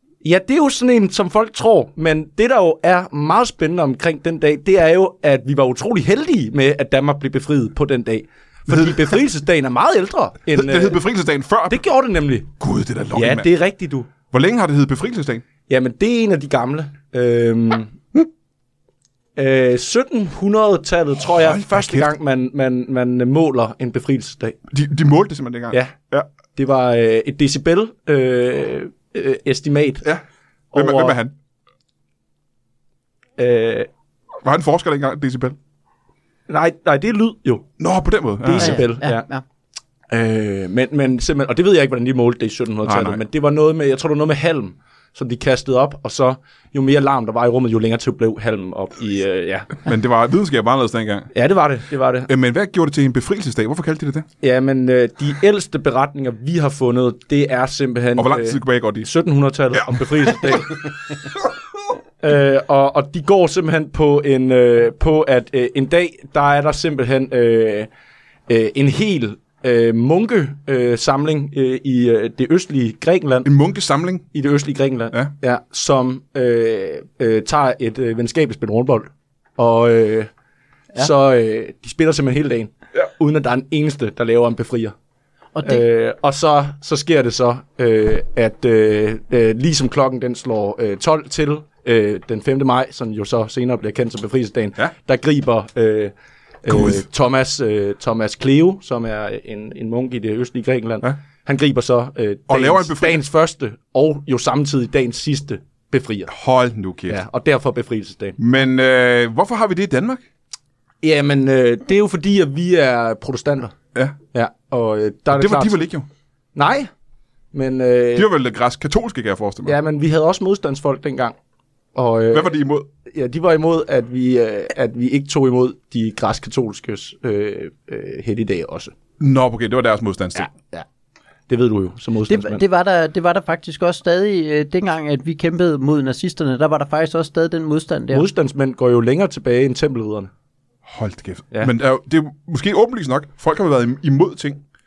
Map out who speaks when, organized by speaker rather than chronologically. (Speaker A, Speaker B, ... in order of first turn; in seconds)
Speaker A: 0.2-11.0, 11.7-12.5, 13.1-14.1, 15.7-17.9, 19.4-24.6, 26.6-30.1, 30.7-31.2, 33.4-33.9, 36.5-37.7, 38.4-39.2, 40.1-49.7, 51.3-52.3, 54.4-60.8, 62.2-67.9, 68.5-73.5, 74.3-80.3, 81.0-84.9, 85.7-106.3, 107.1-108.4, 111.0-113.7, 114.3-115.8, 116.5-116.9, 117.5-118.3, 119.7-121.4, 122.0-128.9, 130.4-130.9, 131.5-132.6, 138.1-140.3
Speaker B: 8.7-9.1, 10.5-11.8, 12.6-13.5, 14.3-15.4, 21.3-22.1, 24.7-26.3, 30.0-31.3, 34.4-35.6, 37.8-38.8, 42.9-43.2, 49.8-51.3, 52.3-54.3, 58.2-59.1, 59.8-60.1, 73.4-74.3, 96.7-97.0, 102.5-103.2, 106.3-107.2, 108.4-110.2, 115.3-116.1, 118.2-119.8, 122.3-122.9, 129.2-130.5, 140.9-144.6
Speaker C: 38.6-39.4, 85.5-85.8, 132.3-138.3